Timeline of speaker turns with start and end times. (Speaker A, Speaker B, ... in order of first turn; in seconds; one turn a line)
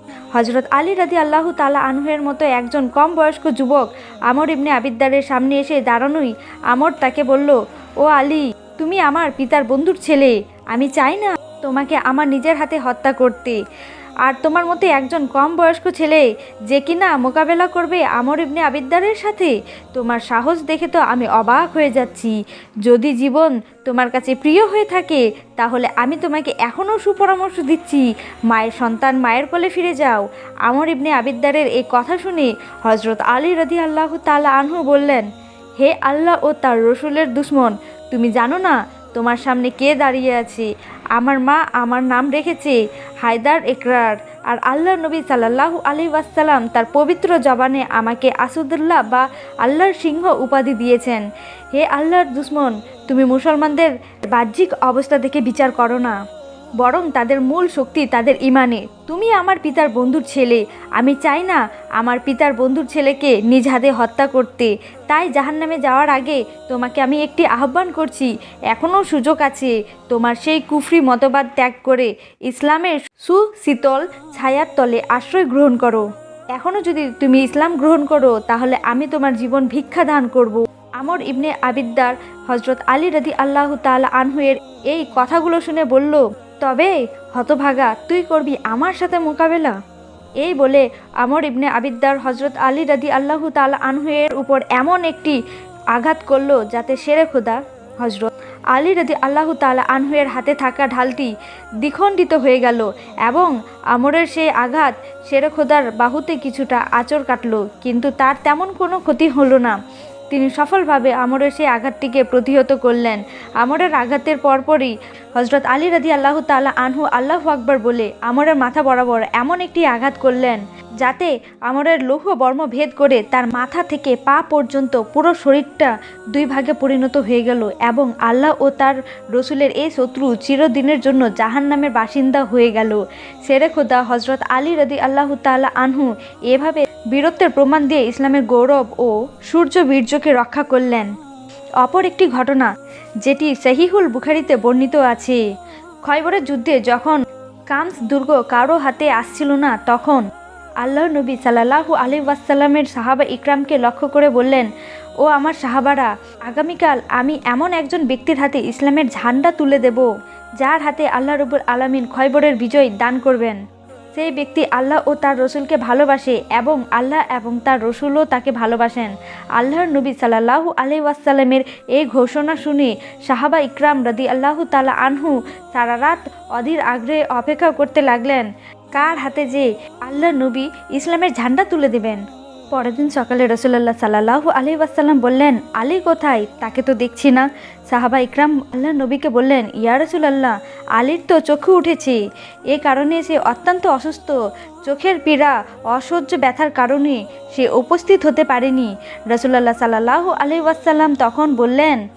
Speaker A: 0.3-13.6
Speaker A: 14.3-22.3
Speaker A: 22.9-35.3
Speaker A: 35.8-51.2
Speaker A: 51.7-56.1
Speaker A: 56.8-89.7
Speaker A: 90.4-95.4
Speaker A: 95.9-101.3
Speaker A: 101.8-109.8
Speaker A: 110.3-141.1
Speaker A: 141.8-142.7
Speaker A: 143.2-145.4
Speaker A: 146.1-147.2
Speaker A: 147.7-150.2
Speaker A: 150.8-154.7
Speaker A: 155.2-160.1
Speaker A: 160.6-163.6
Speaker A: 164.2-182.2
Speaker A: 182.7-192.2
Speaker A: 192.7-202.0